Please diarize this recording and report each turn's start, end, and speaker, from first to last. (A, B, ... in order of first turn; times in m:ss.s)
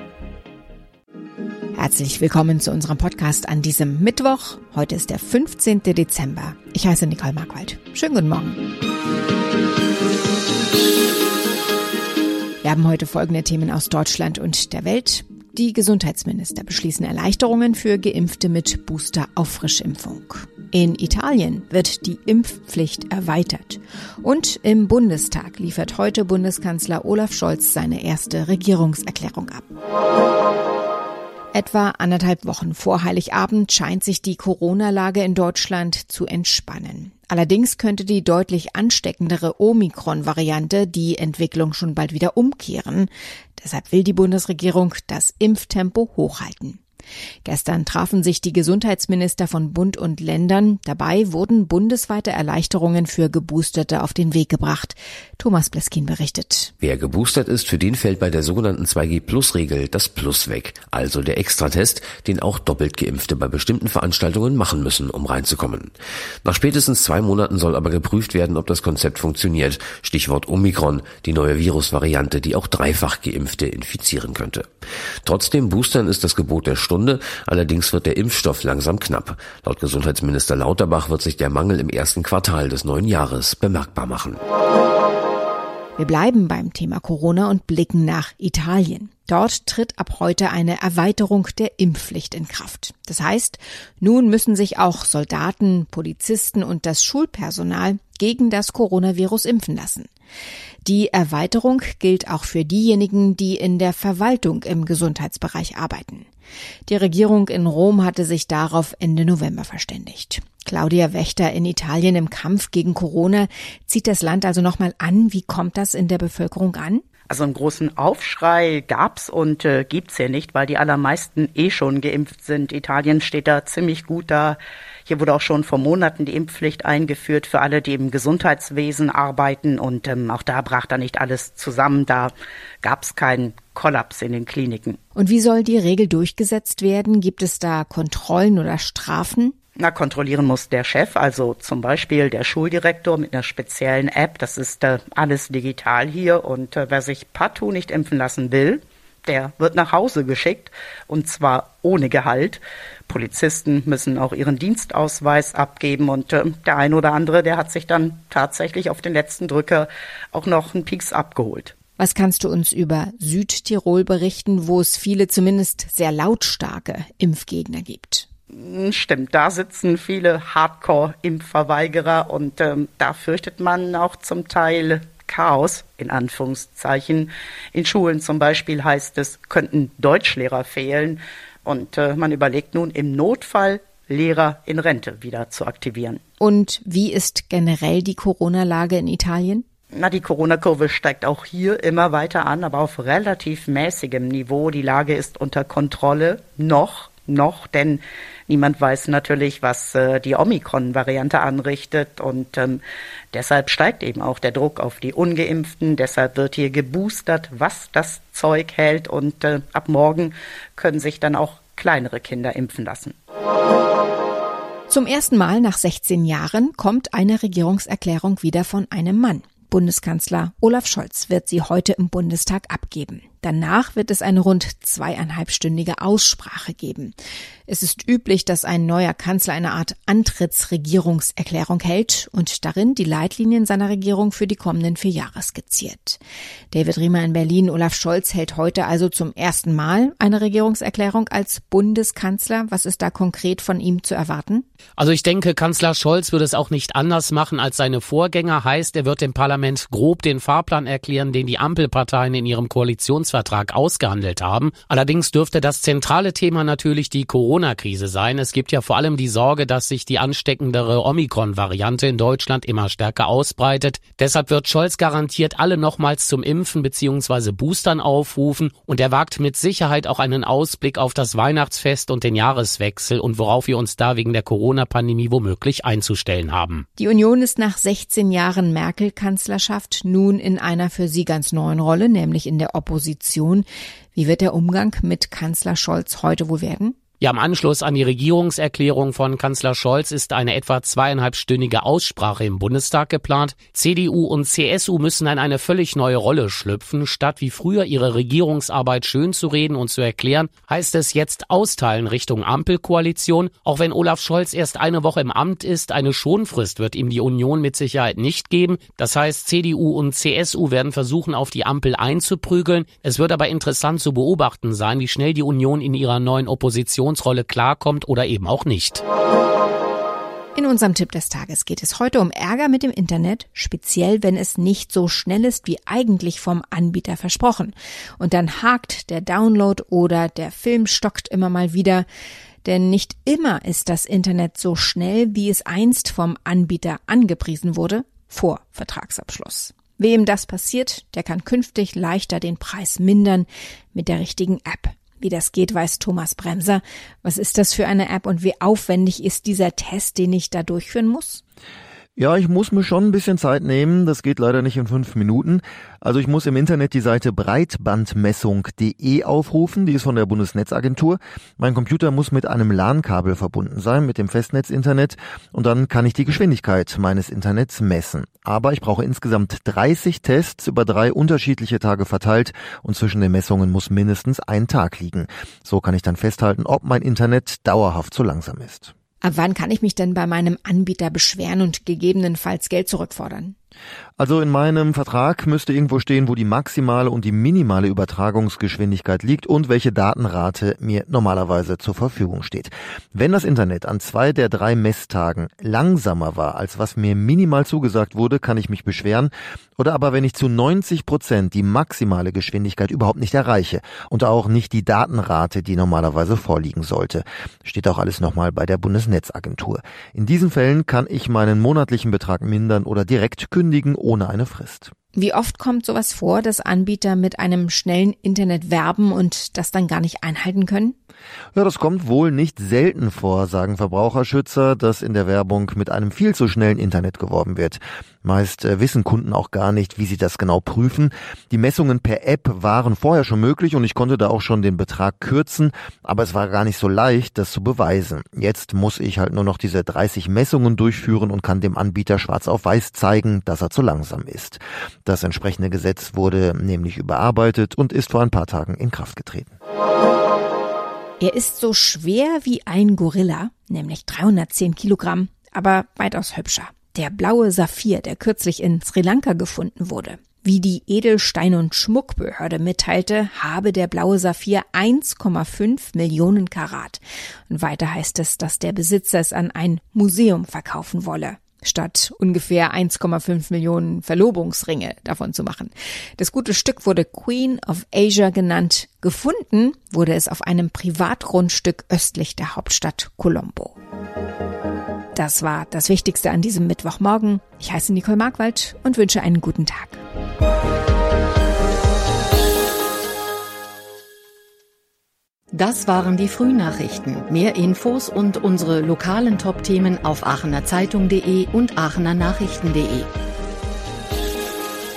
0:01.8-0:08.6 A
0:12.6-0:29.7 A
0:31.5-0:46.8 A
0:47.4-0:56.7 A
0:56.8-1:05.9 B
1:06.4-1:14.7 B
1:15.2-1:24.4 B
1:26.0-1:40.1 A
1:40.8-1:46.3 A
1:46.8-1:57.0 A
1:57.3-2:12.3 C
2:12.8-2:15.0 C
2:15.1-2:19.5 A
2:19.8-2:41.7 C
2:42.0-2:48.3 A
2:48.5-3:06.2 C
3:06.4-3:09.6 A
3:09.9-3:22.8 C
3:23.3-3:33.2 C
3:34.9-3:47.1 A
3:47.7-3:56.2 A
3:56.7-4:04.6 A
4:05.0-4:36.8 D
4:37.0-4:47.0 A
4:47.2-5:19.0 D
5:20.5-5:32.0 A
5:32.6-5:51.4 A
5:52.2-6:18.9 E
6:19.2-6:23.5 A
6:24.2-6:54.9 E
6:55.1-7:00.9 A
7:01.5-7:29.5 E
7:31.2-8:03.8 A
8:05.1-8:10.0 A
8:15.5-8:23.1 F